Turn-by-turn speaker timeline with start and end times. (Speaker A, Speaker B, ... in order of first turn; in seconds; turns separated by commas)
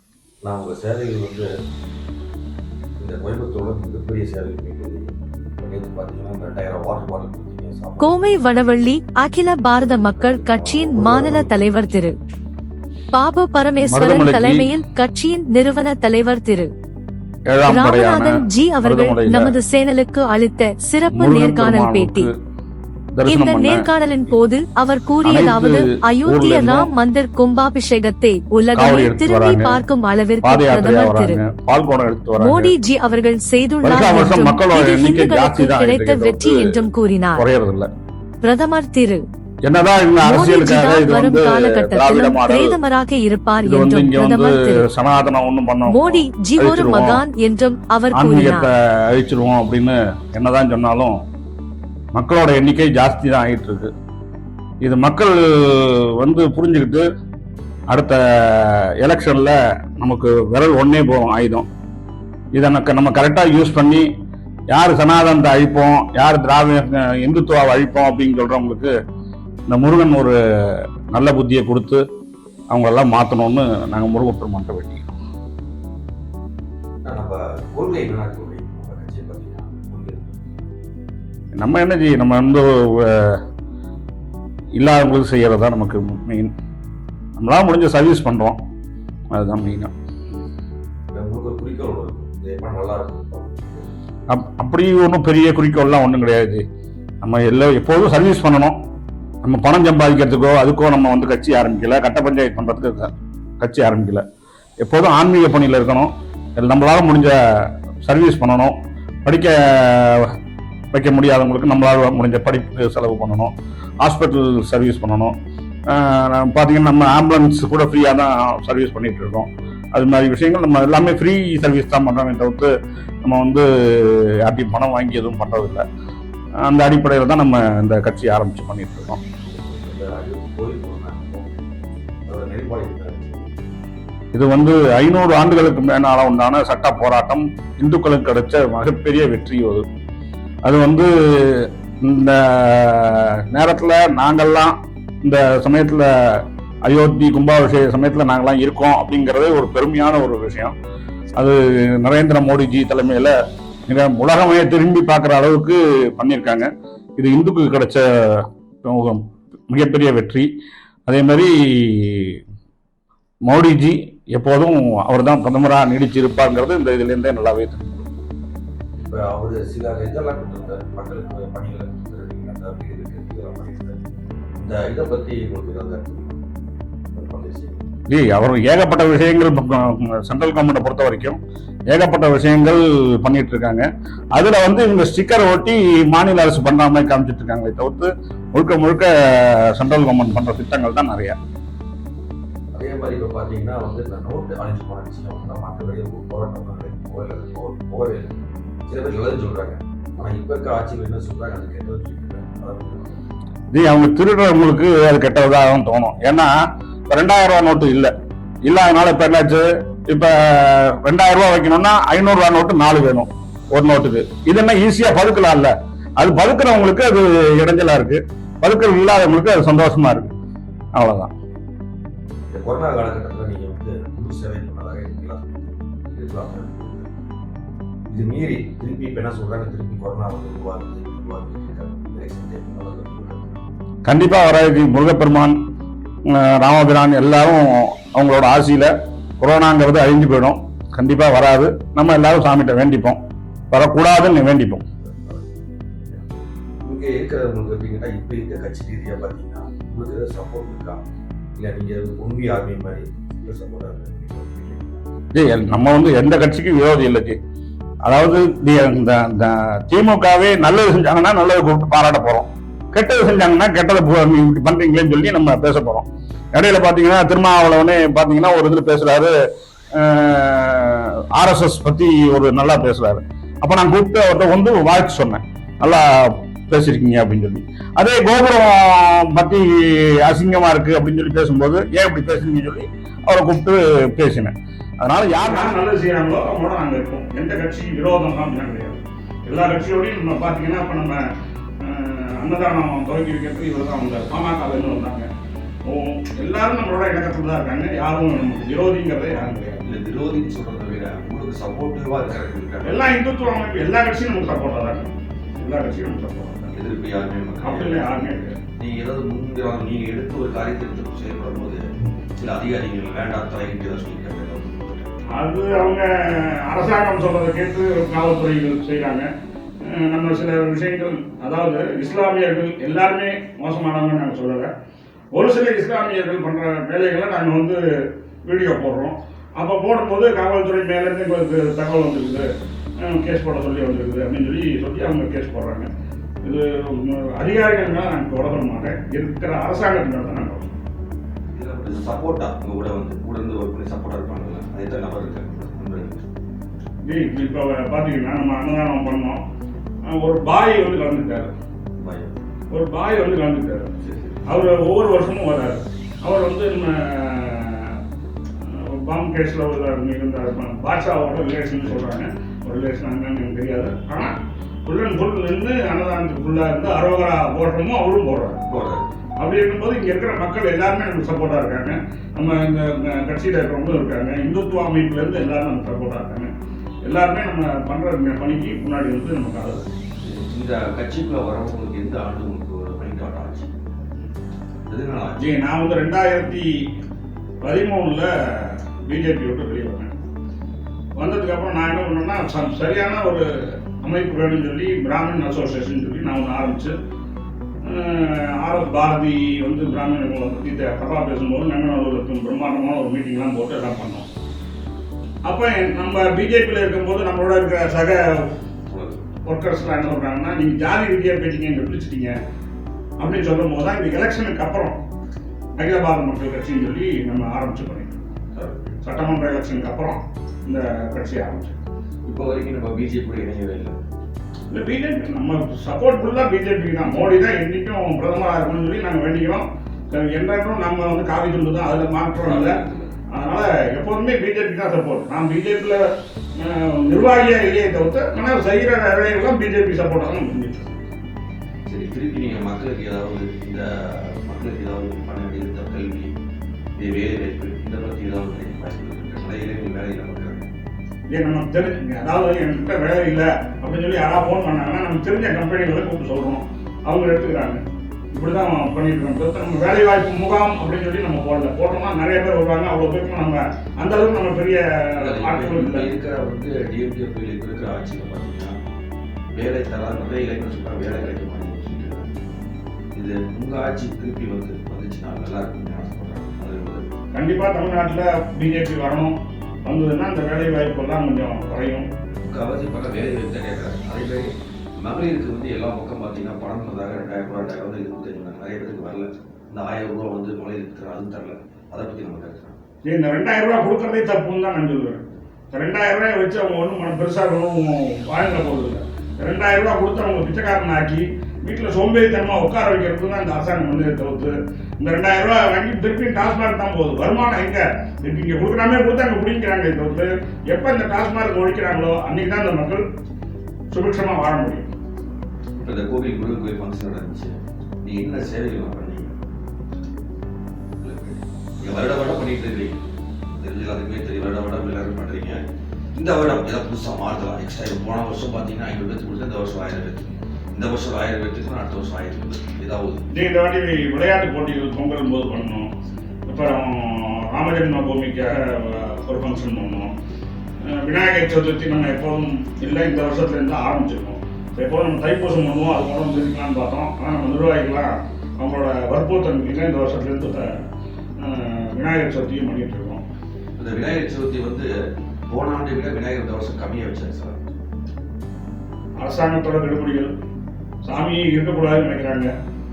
Speaker A: 0.4-1.5, Speaker A: 3.0-5.1, Speaker A: 5.6-8.2, Speaker B: 8.0-12.1, Speaker A: 9.8-11.6, Speaker B: 13.1-16.7, Speaker C: 13.9-14.7, Speaker C: 17.5-19.5, Speaker B: 17.6-22.3, Speaker C: 21.1-22.3, Speaker C: 23.1-23.9, Speaker B: 23.2-31.4, Speaker C: 25.2-26.9, Speaker C: 28.7-29.8, Speaker C: 30.4-32.7, Speaker B: 32.4-37.4, Speaker C: 33.8-36.7, Speaker C: 37.3-37.9, Speaker B: 38.4-39.2, Speaker C: 39.7-42.8, Speaker B: 40.2-44.9, Speaker C: 43.6-47.2, Speaker B: 45.9-48.7, Speaker C: 48.1-51.2, Speaker C: 52.1-53.9, Speaker C: 54.8-57.1, Speaker C: 57.9-61.6, Speaker C: 62.5-64.1, Speaker C: 64.7-68.9, Speaker C: 69.7-70.3, Speaker C: 71.1-72.0, Speaker C: 72.7-75.1, Speaker A: 77.0-80.4, Speaker C: 81.6-83.3, Speaker C: 84.8-86.5, Speaker C: 87.4-88.6, Speaker C: 89.3-89.9, Speaker A: 91.1-93.9, Speaker C: 94.3-96.6, Speaker C: 97.2-98.8, Speaker C: 99.4-104.2, Speaker C: 104.8-107.4, Speaker C: 108.0-110.3, Speaker C: 110.9-115.3, Speaker C: 115.9-122.7, Speaker C: 123.2-125.8, Speaker C: 126.6-129.2, Speaker A: 129.5-131.5, Speaker A: 132.3-133.5, Speaker C: 134.3-139.8, Speaker C: 140.7-146.1, Speaker C: 146.8-150.7, Speaker C: 151.4-153.3, Speaker C: 153.9-160.5, Speaker C: 161.1-162.4, Speaker C: 163.5-168.1, Speaker A: 169.0-174.0, Speaker A: 174.6-176.4, Speaker A: 177.1-177.8, Speaker C: 178.1-181.4, Speaker C: 181.9-191.4, Speaker A: 192.7-203.2, Speaker C: 203.7-206.5, Speaker C: 207.1-208.1, Speaker C: 208.7-220.3, Speaker C: 220.9-221.3, Speaker A: 222.5-227.1, Speaker A: 228.1-233.6, Speaker C: 234.1-235.6, Speaker C: 236.3-243.2, Speaker C: 243.7-244.8, Speaker A: 245.0-245.5, Speaker A: 246.8-251.0, Speaker A: 251.6-255.1, Speaker C: 255.3-257.4, Speaker C: 258.0-269.3, Speaker C: 269.9-291.2, Speaker C: 291.8-295.3, Speaker C: 295.9-299.8, Speaker A: 299.8-303.1, Speaker C: 302.8-306.7, Speaker A: 306.7-308.1, Speaker C: 307.6-308.6, Speaker A: 308.8-311.8, Speaker A: 312.4-315.1, Speaker C: 315.3-319.3, Speaker C: 319.9-324.7, Speaker C: 325.3-327.8, Speaker C: 328.4-332.5, Speaker C: 333.0-335.9, Speaker C: 336.4-340.7, Speaker A: 341.5-346.2, Speaker C: 347.1-349.4, Speaker C: 350.1-351.5, Speaker A: 352.0-352.4, Speaker C: 352.7-353.9, Speaker A: 354.0-354.4, Speaker C: 354.5-357.9, Speaker C: 359.0-364.3, Speaker C: 364.9-368.6, Speaker A: 368.6-369.0, Speaker C: 369.4-376.5, Speaker C: 377.0-379.8, Speaker A: 380.2-383.7, Speaker A: 384.8-385.4, Speaker C: 385.4-386.7, Speaker C: 387.6-388.3, Speaker C: 389.1-390.1, Speaker C: 391.2-393.4, Speaker C: 394.0-396.9, Speaker C: 397.8-404.3, Speaker C: 405.4-408.2, Speaker A: 408.9-409.2, Speaker C: 409.4-412.3, Speaker C: 413.2-414.9, Speaker C: 415.8-418.1, Speaker A: 418.5-419.0, Speaker C: 419.0-421.8, Speaker A: 422.2-424.0, Speaker C: 424.7-432.8, Speaker A: 432.4-433.1, Speaker C: 433.3-436.0, Speaker C: 436.6-441.0, Speaker A: 441.9-446.3, Speaker A: 447.0-450.7, Speaker C: 451.3-457.8, Speaker C: 458.3-466.1, Speaker A: 465.2-468.7, Speaker A: 469.5-472.3, Speaker A: 473.1-477.1, Speaker C: 477.3-479.3, Speaker C: 479.8-482.1, Speaker A: 482.3-492.8, Speaker C: 493.1-513.0, Speaker C: 513.9-514.9, Speaker A: 515.8-519.4, Speaker A: 521.0-523.0, Speaker A: 523.6-525.6, Speaker A: 526.1-533.2, Speaker C: 533.3-535.9, Speaker C: 536.5-540.1, Speaker C: 540.9-550.6, Speaker C: 551.4-553.2, Speaker A: 553.8-554.9, Speaker A: 555.5-557.8, Speaker C: 559.2-560.3, Speaker C: 561.0-562.5